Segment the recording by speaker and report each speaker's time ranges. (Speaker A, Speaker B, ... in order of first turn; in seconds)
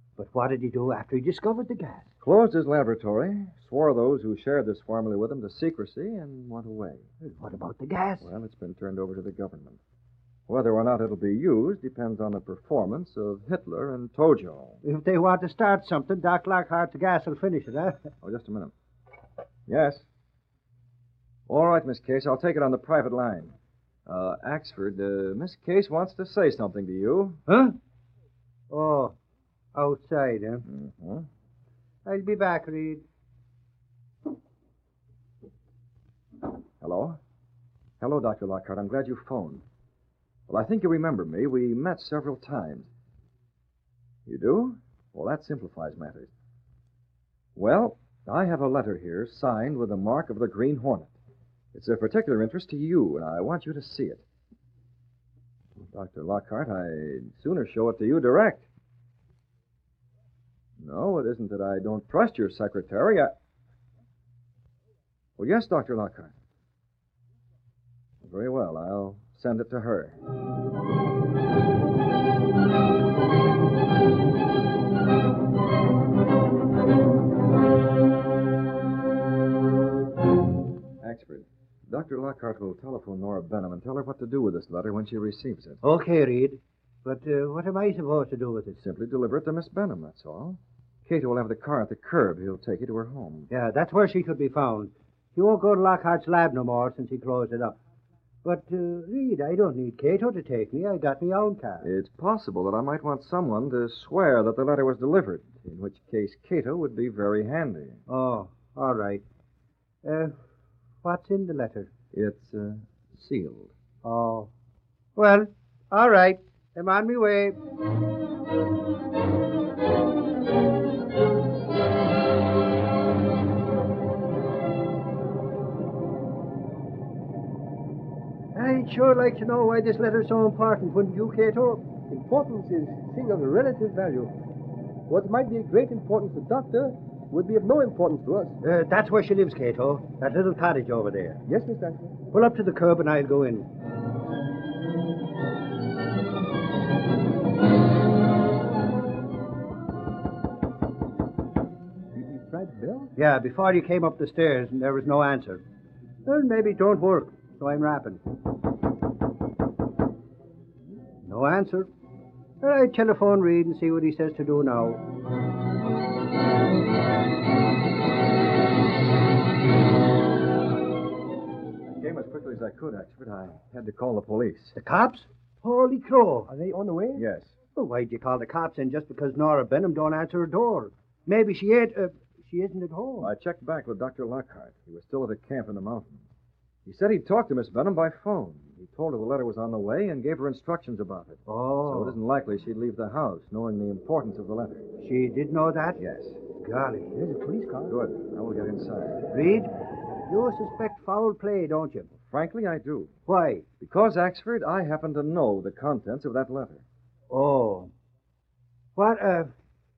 Speaker A: 0.2-2.1, 7.2-8.3, 14.8-18.1, 27.5-27.7, 28.7-29.1, 29.7-30.6, 32.0-33.0, 85.8-88.8, 93.5-97.8, 98.4-101.9, 108.1-109.2, 110.0-110.3, 111.0-111.9, 114.0-114.5, 115.2-117.6, 128.5-131.9, 138.6-141.4, 142.3-143.7, 153.2-155.6, 156.2-158.2, 161.2-161.9, 162.6-165.0, 174.8-176.5, 177.7-183.3, 191.5-192.2, 195.0-196.0, 196.6-197.2, 199.3-199.7, 200.3-202.1, 203.3-203.7, 207.3-207.9, 208.9-209.5
Speaker B: 2.2-7.0, 8.2-9.8, 10.5-14.8, 18.2-18.7, 19.7-20.0, 21.5-23.5, 24.1-27.4, 30.6-31.3, 36.8-37.2, 38.0-39.6, 40.5-42.9, 44.2-46.3, 47.5-51.1, 51.7-54.2, 55.8-58.6, 60.8-63.3, 65.4-66.3, 68.2-70.2, 81.0-85.8, 88.8-93.5, 101.8-108.0, 112.1-113.7, 171.8-174.8, 177.1-177.5, 183.2-186.2, 186.8-194.8, 196.0-196.4, 197.9-199.2, 202.1-203.1, 203.8-206.8
Speaker C: 132.1-134.3, 135.1-138.6, 141.5-142.1, 152.1-153.1, 176.5-177.2, 197.2-197.9